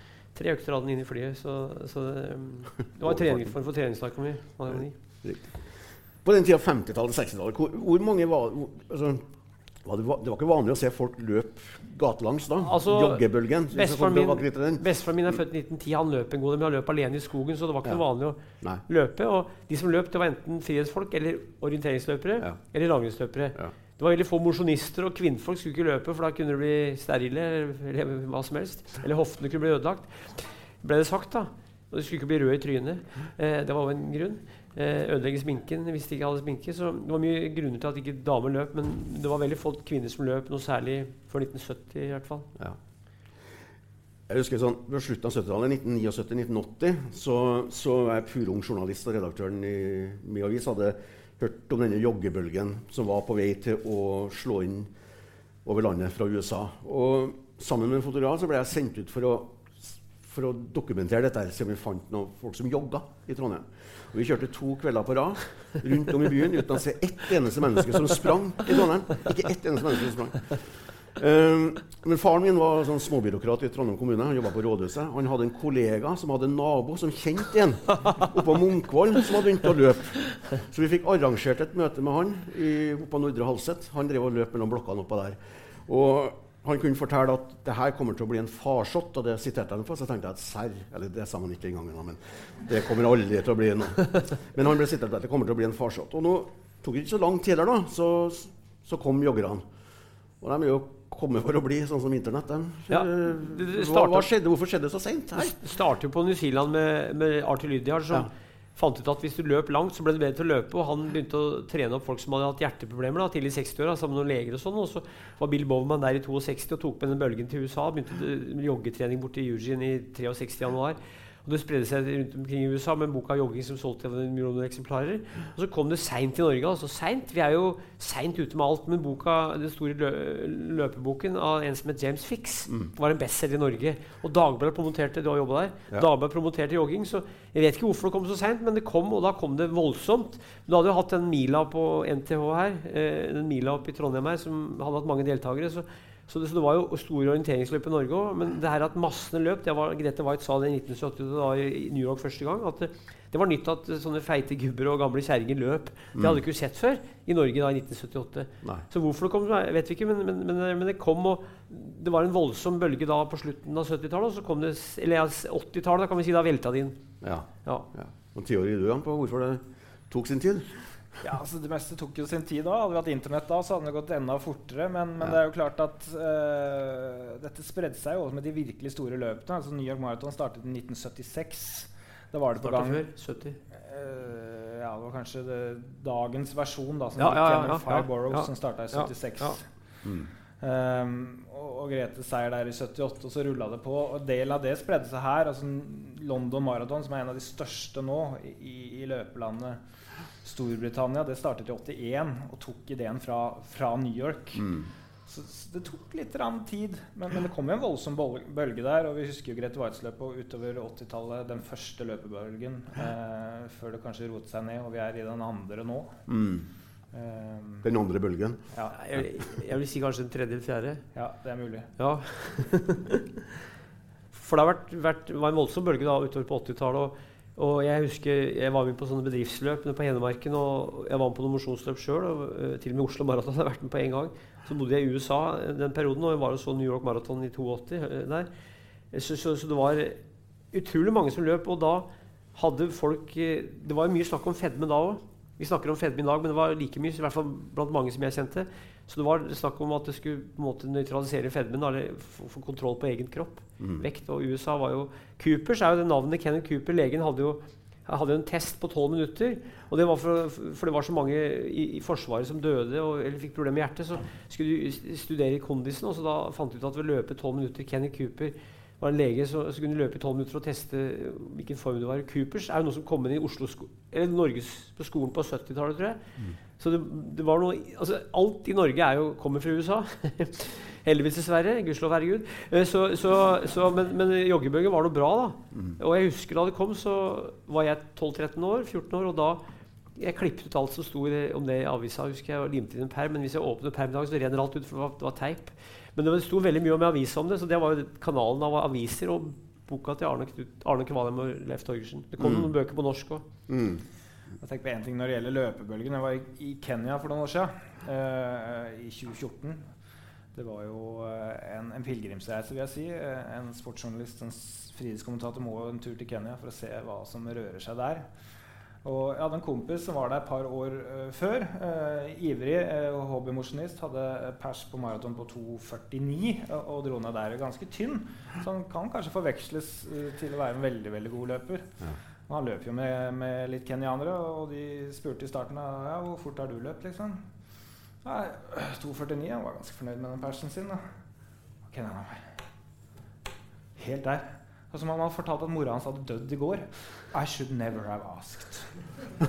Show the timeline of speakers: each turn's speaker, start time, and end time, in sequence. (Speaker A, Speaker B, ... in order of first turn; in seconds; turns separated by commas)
Speaker A: 0.3-4.9, Speaker B: 3.0-3.5, Speaker B: 5.2-9.2, Speaker B: 9.8-14.8, Speaker A: 12.6-42.5, Speaker B: 44.3-54.9, Speaker B: 55.6-99.7, Speaker B: 100.4-105.5, Speaker A: 102.9-104.3, Speaker A: 105.3-167.0, Speaker B: 156.1-156.4, Speaker B: 167.2-170.8, Speaker C: 171.2-183.0, Speaker A: 182.6-183.6, Speaker C: 183.7-189.7, Speaker A: 187.2-189.6, Speaker B: 190.0-190.3, Speaker C: 190.6-199.8, Speaker C: 200.4-204.7, Speaker C: 205.2-216.2, Speaker B: 216.3-216.7, Speaker C: 217.1-217.8, Speaker B: 217.8-219.2, Speaker A: 218.9-221.0, Speaker C: 221.1-221.9, Speaker A: 222.0-223.2, Speaker A: 224.3-238.5, Speaker A: 239.1-240.2, Speaker A: 240.7-276.2, Speaker B: 253.8-254.0, Speaker A: 276.8-289.6, Speaker A: 290.1-303.4, Speaker B: 302.4-302.7, Speaker B: 303.7-304.0, Speaker C: 304.6-309.9, Speaker C: 310.5-318.3, Speaker C: 319.0-337.4, Speaker C: 338.2-341.0, Speaker C: 341.9-342.5, Speaker C: 343.9-349.0